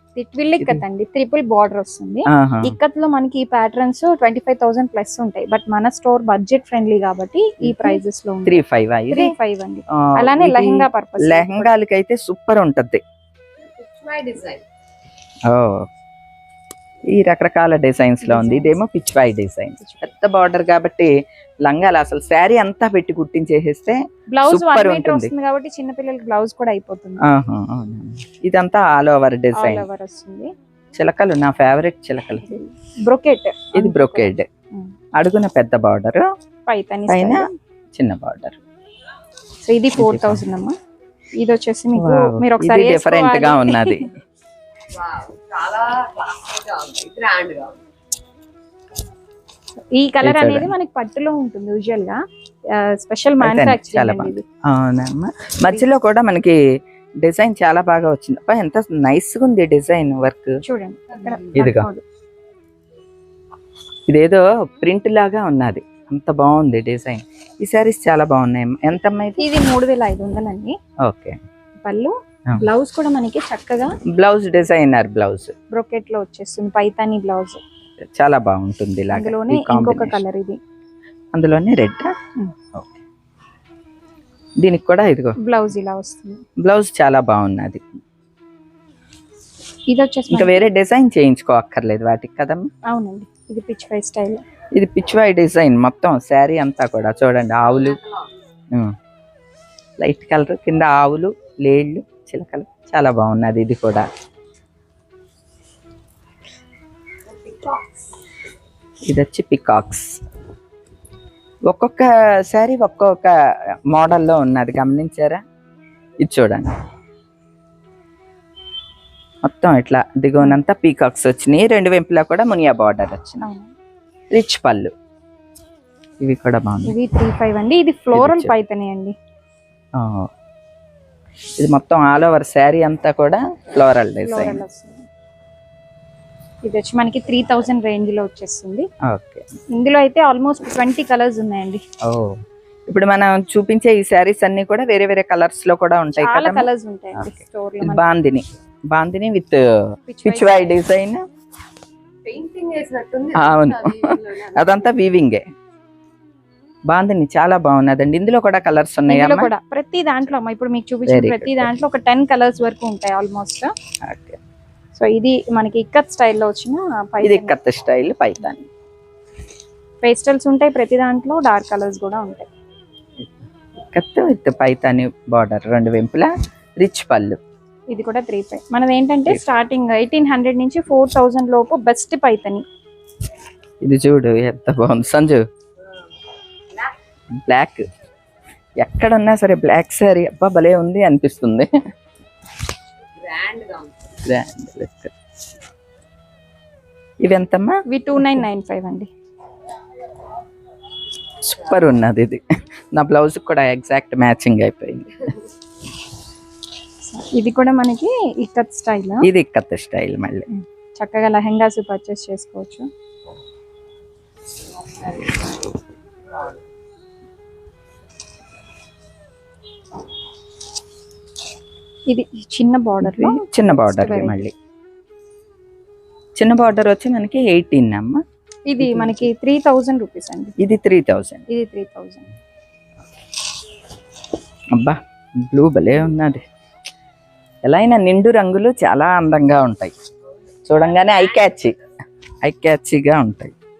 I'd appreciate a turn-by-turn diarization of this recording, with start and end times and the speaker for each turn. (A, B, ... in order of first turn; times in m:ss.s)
0:00.2-0:11.7 A
0:00.6-0:00.8 B
0:02.3-0:02.8 B
0:07.6-0:09.3 B
0:09.9-0:13.0 B
0:13.6-0:14.6 C
0:15.5-0:15.9 B
0:17.1-0:21.1 B
0:18.2-0:18.8 A
0:19.8-0:20.1 A
0:21.6-0:25.3 B
0:24.3-0:27.2 A
0:27.2-0:29.8 B
0:29.6-0:30.5 A
0:30.9-0:32.5 B
0:32.4-0:34.9 A
0:33.7-0:34.4 B
0:35.2-0:36.2 B
0:36.7-0:37.5 A
0:37.1-0:38.6 B
0:39.6-0:40.7 A
0:40.0-0:40.4 B
0:41.4-0:44.0 A
0:41.9-0:44.1 B
0:44.9-0:47.8 C
0:49.9-0:52.2 A
0:50.2-0:50.7 B
0:52.8-0:54.4 A
0:53.4-0:56.6 B
0:57.2-1:00.5 B
1:00.6-1:02.0 A
1:01.5-1:01.9 B
1:04.1-1:09.5 B
1:09.4-1:10.8 A
1:11.0-1:11.4 B
1:11.8-1:14.0 A
1:14.1-1:15.5 B
1:15.7-1:17.6 A
1:18.1-1:20.2 B
1:19.1-1:20.6 A
1:21.3-1:22.1 B
1:22.7-1:23.0 B
1:24.6-1:25.4 B
1:25.4-1:26.4 A
1:26.6-1:27.8 B
1:29.9-1:30.7 A
1:30.3-1:32.7 B
1:32.9-1:34.4 A
1:34.7-1:38.0 B
1:37.6-1:38.2 C
1:40.0-1:44.0 B
1:47.4-1:47.9 C
1:49.1-1:50.2 B
1:51.7-1:53.3 B
1:53.9-1:55.4 B
1:56.2-1:56.7 B
1:59.4-2:03.4 B
2:03.4-2:03.7 A
2:04.3-2:04.9 B
2:06.2-2:06.9 B
2:06.8-2:09.1 A
2:08.1-2:08.5 B
2:10.0-2:10.3 B
2:11.6-2:14.6 B
2:14.2-2:15.0 A
2:16.6-2:18.9 A
2:19.1-2:19.4 B
2:19.7-2:21.8 A
2:22.0-2:29.7 B
2:26.2-2:28.1 A
2:30.1-2:30.8 A
2:30.2-2:31.2 B
2:32.2-2:34.9 C
2:33.3-2:35.4 B
2:36.9-2:39.5 B
2:39.1-2:43.7 A
2:41.1-2:41.7 B
2:44.0-2:44.4 B
2:44.9-2:47.5 A
2:47.2-2:48.7 B
2:50.0-2:52.5 A
2:53.9-2:57.4 B
2:57.9-3:02.6 A
3:03.8-3:05.4 B
3:07.4-3:07.8 B
3:08.8-3:11.7 B
3:13.2-3:14.0 C
3:14.2-3:15.1 B
3:17.2-3:18.4 B
3:17.9-3:19.1 A
3:21.4-3:22.4 B
3:22.9-3:25.3 B
3:27.1-3:29.2 A
3:29.2-3:30.5 B
3:30.5-3:32.9 A
3:34.8-3:35.4 C
3:42.1-3:44.4 A
3:43.0-3:44.5 B
3:46.4-3:48.2 B
3:48.7-3:50.5 A
3:48.8-3:49.3 B
3:50.6-3:51.4 B
3:51.5-3:52.3 A
3:54.7-3:56.4 B
3:57.6-3:59.9 B
4:00.6-4:01.8 B
4:02.4-4:03.6 B